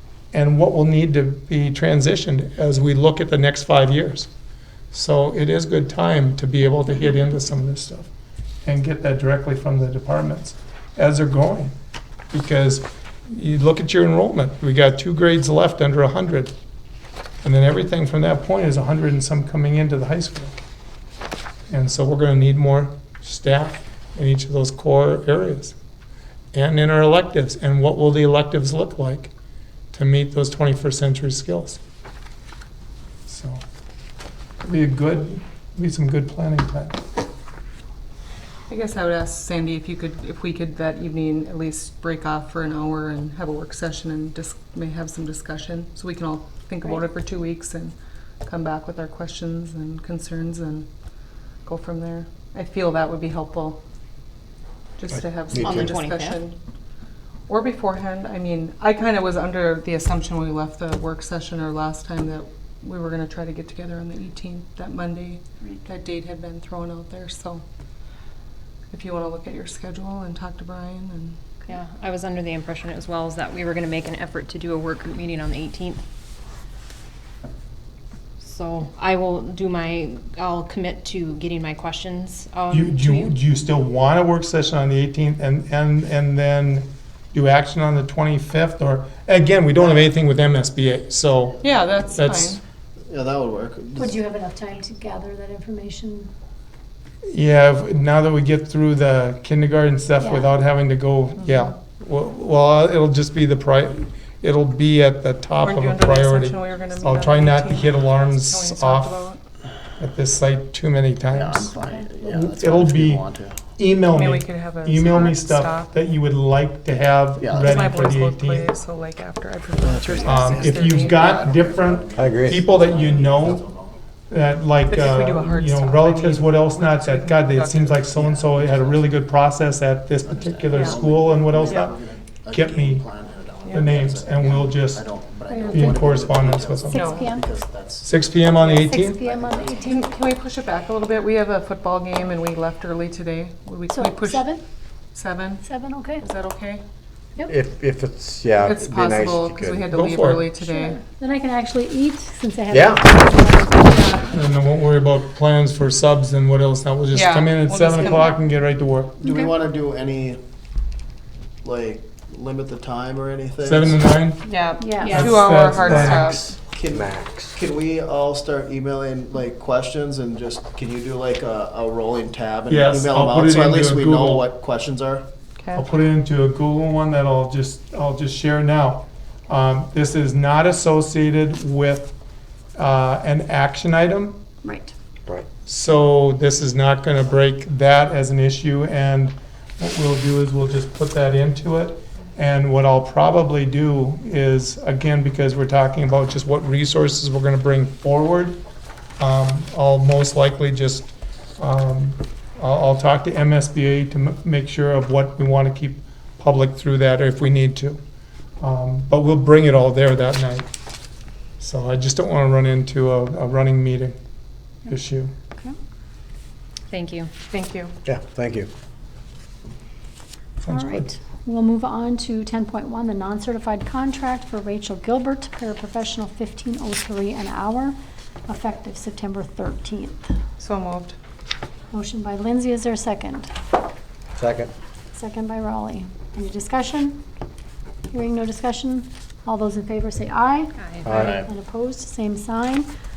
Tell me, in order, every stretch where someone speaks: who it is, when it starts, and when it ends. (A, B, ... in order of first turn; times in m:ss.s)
0:00.3-0:04.3 A
0:04.9-0:08.1 A
0:08.6-0:11.8 A
0:12.3-0:16.5 A
0:17.4-0:20.6 A
0:21.7-0:25.8 A
0:26.5-0:29.3 A
0:29.9-0:31.8 A
0:33.3-0:33.6 A
0:34.6-0:37.0 A
0:38.7-0:50.9 B
0:51.6-0:53.8 B
0:55.0-0:56.6 B
0:55.5-0:55.9 C
0:55.6-0:56.4 D
0:57.5-1:07.6 B
1:08.9-1:11.4 B
1:11.7-1:16.0 D
1:18.4-1:23.4 D
1:22.7-1:31.6 A
1:31.6-1:32.6 B
1:32.1-1:32.6 A
1:33.1-1:34.2 E
1:34.0-1:36.3 F
1:37.3-1:49.2 A
1:41.4-1:41.7 B
1:45.6-1:49.4 B
1:50.0-1:58.7 A
1:51.3-1:53.6 E
1:54.1-1:55.9 B
1:57.4-1:57.8 E
1:57.6-2:01.4 B
1:59.8-2:03.9 E
2:00.2-2:03.6 A
2:02.2-2:02.6 C
2:04.3-2:11.9 A
2:04.9-2:08.1 B
2:08.1-2:09.1 E
2:10.2-2:18.6 E
2:10.7-2:11.0 B
2:12.5-2:13.0 A
2:13.6-2:15.0 A
2:15.5-2:15.8 F
2:15.7-2:17.0 A
2:16.9-2:17.4 F
2:16.9-2:17.3 B
2:18.0-2:19.2 A
2:18.6-2:20.0 F
2:19.2-2:19.8 E
2:19.8-2:24.5 B
2:23.9-2:24.6 F
2:25.1-2:25.7 B
2:25.6-2:26.2 F
2:26.2-2:26.8 B
2:27.5-2:29.8 C
2:28.6-2:31.0 B
2:29.9-2:30.5 A
2:31.0-2:33.8 F
2:32.7-2:33.1 C
2:34.2-2:39.2 A
2:37.1-2:38.4 B
2:39.2-2:40.4 E
2:41.6-2:44.1 E
2:43.6-2:44.4 A
2:44.4-2:46.4 B
2:45.0-2:45.4 D
2:45.0-2:46.3 A
2:45.9-2:47.6 C
2:46.6-2:55.3 E
2:52.7-2:54.4 A
2:55.6-2:55.8 B
2:55.8-3:02.1 A
3:02.8-3:04.4 A
3:05.7-3:18.6 A
3:19.2-3:21.1 A
3:21.6-3:28.0 A
3:28.6-3:30.7 A
3:31.6-3:34.2 A
3:34.9-3:35.3 A
3:36.9-3:37.3 D
3:37.5-3:37.9 B
3:38.1-3:38.7 C
3:40.6-3:41.1 A
3:40.8-3:48.0 F
3:48.5-3:50.2 F
3:50.6-3:51.2 B
3:51.9-3:53.5 F
3:54.4-3:54.7 C
3:55.1-3:57.2 F
3:58.1-4:00.7 F
4:00.8-4:01.4 D
4:01.0-4:01.4 C
4:01.5-4:02.9 F